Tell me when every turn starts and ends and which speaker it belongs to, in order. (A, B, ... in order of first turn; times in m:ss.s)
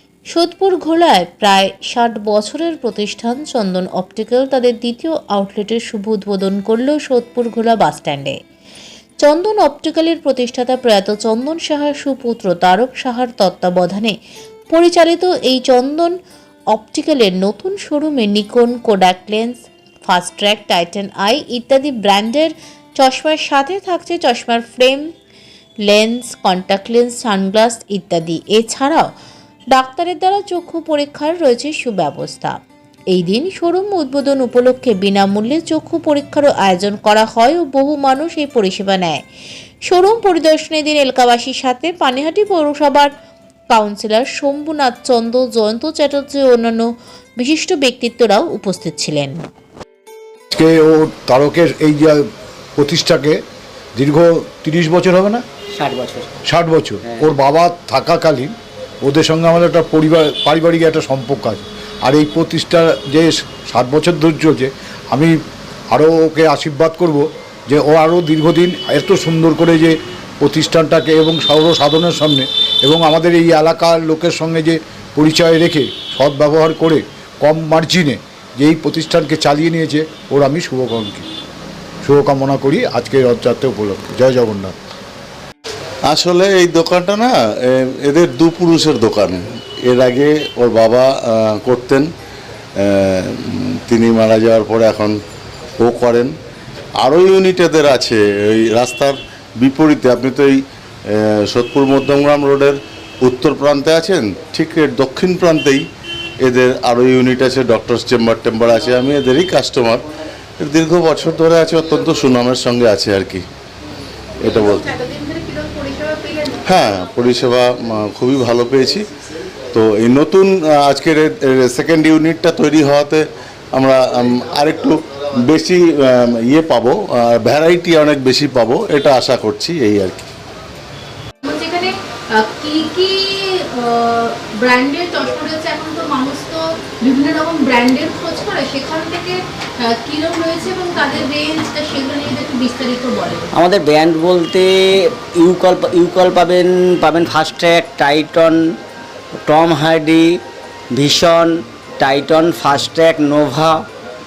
0:00.3-0:08.4 A
0:09.2-0:14.2 A
0:14.7-0:16.2 A
0:16.7-0:25.1 A
0:25.8-0:29.1 A
0:29.7-0:32.6 A
0:33.1-0:39.2 A
0:39.9-0:43.1 A
0:43.7-0:49.4 A
0:50.5-0:52.2 B
0:52.8-0:53.4 B
0:54.0-0:55.4 B
0:55.7-0:56.3 C
0:56.4-1:05.3 B
0:57.0-0:57.3 C
1:05.9-1:21.2 B
1:22.0-1:24.7 B
1:26.1-1:32.1 D
1:32.8-1:35.2 D
1:35.8-1:36.3 D
1:37.0-1:45.8 D
1:46.4-1:50.0 D
1:50.6-1:53.4 D
1:54.4-1:55.0 D
1:54.4-1:56.6 E
1:56.6-1:59.0 D
1:59.7-2:10.3 D
2:11.4-2:23.5 E
2:23.5-2:28.6 C
2:29.5-2:30.4 C
2:30.9-2:33.8 C